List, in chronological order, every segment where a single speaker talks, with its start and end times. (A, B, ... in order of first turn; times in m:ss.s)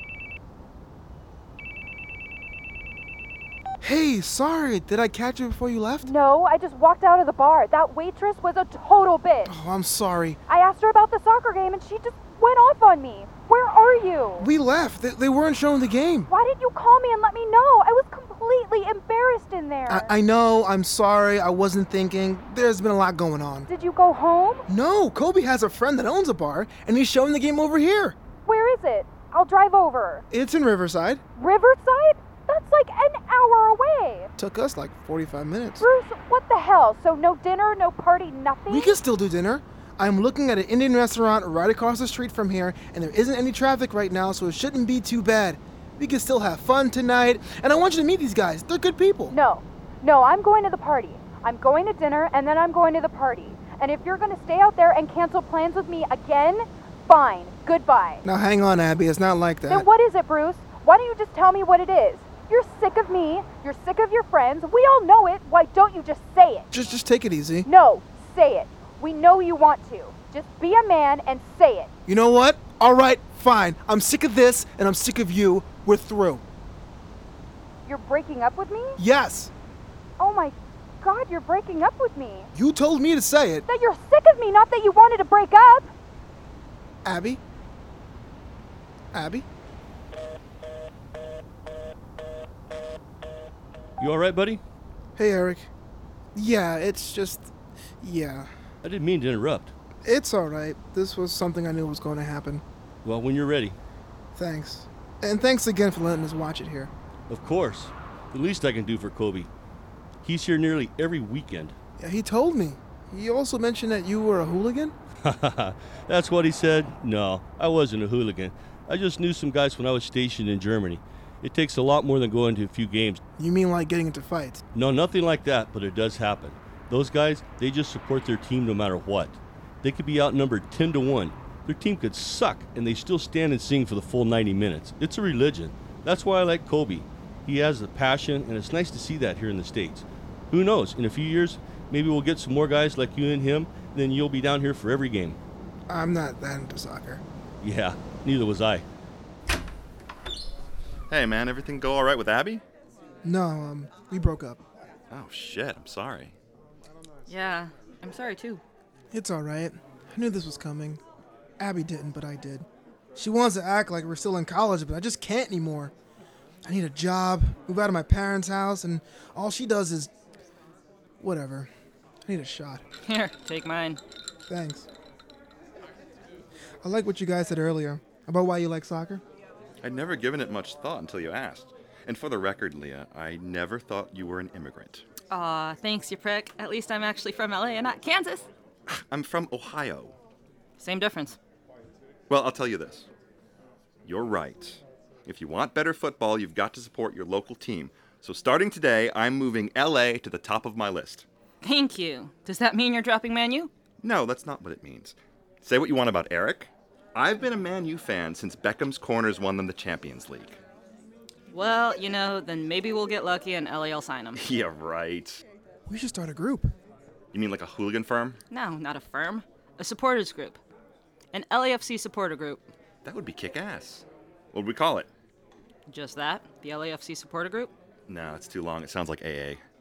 0:03.8-0:06.1 A
0:06.0-0:09.5 B
0:09.4-0:10.4 A
0:10.5-0:14.5 B
0:14.4-0:16.3 A
0:16.3-0:20.1 B
0:19.9-0:23.7 A
0:23.6-0:24.6 B
0:24.7-0:28.2 A
0:28.4-0:30.2 B
0:30.3-0:31.2 A
0:31.4-0:34.3 B
0:34.4-0:35.9 A
0:35.8-0:39.0 B
0:38.7-0:49.3 A
0:49.3-0:58.2 B
0:58.2-0:59.8 A
0:59.7-1:06.7 B
1:06.7-1:07.7 A
1:07.6-1:11.9 B
1:12.0-1:16.4 A
1:17.8-1:19.0 B
1:19.0-1:19.5 A
1:20.2-1:22.5 B
1:22.5-1:23.6 A
1:23.7-1:25.9 B
1:27.0-1:27.4 A
1:29.1-1:29.4 A
1:34.0-1:34.6 C
1:35.2-1:35.7 A
1:36.3-1:38.5 A
1:38.8-1:39.7 C
1:40.0-1:42.6 A
1:43.0-1:43.8 C
1:44.4-1:46.9 A
1:47.3-1:49.5 C
1:50.2-1:51.7 C
1:52.0-1:54.9 A
1:55.3-2:03.2 C
2:03.4-2:04.6 A
2:04.7-2:25.4 C
2:25.9-2:27.2 A
2:27.6-2:28.8 C
2:31.1-2:32.6 D
2:33.2-2:34.6 A
2:35.1-2:36.3 D
2:37.3-2:38.6 E
2:39.1-2:41.0 A
2:41.6-2:45.9 A
2:46.6-2:50.1 A
2:51.2-2:51.7 A
2:52.2-2:52.8 A
2:53.0-2:54.0 E
2:54.5-2:54.9 A
2:56.8-2:59.2 A
2:59.8-3:05.1 D
3:05.3-3:08.5 E
3:08.9-3:10.1 D
3:10.8-3:11.4 E
3:12.3-3:13.1 D
3:14.0-3:21.2 D
3:21.6-3:23.7 E
3:24.0-3:30.6 D
3:31.5-3:34.4 E
3:34.4-3:35.4 D
3:35.8-3:36.7 A
3:37.3-3:38.4 D
3:38.5-3:40.6 E
3:41.3-3:42.6 E
3:43.0-3:45.1 D
3:45.9-3:47.7 E
3:48.1-3:49.6 D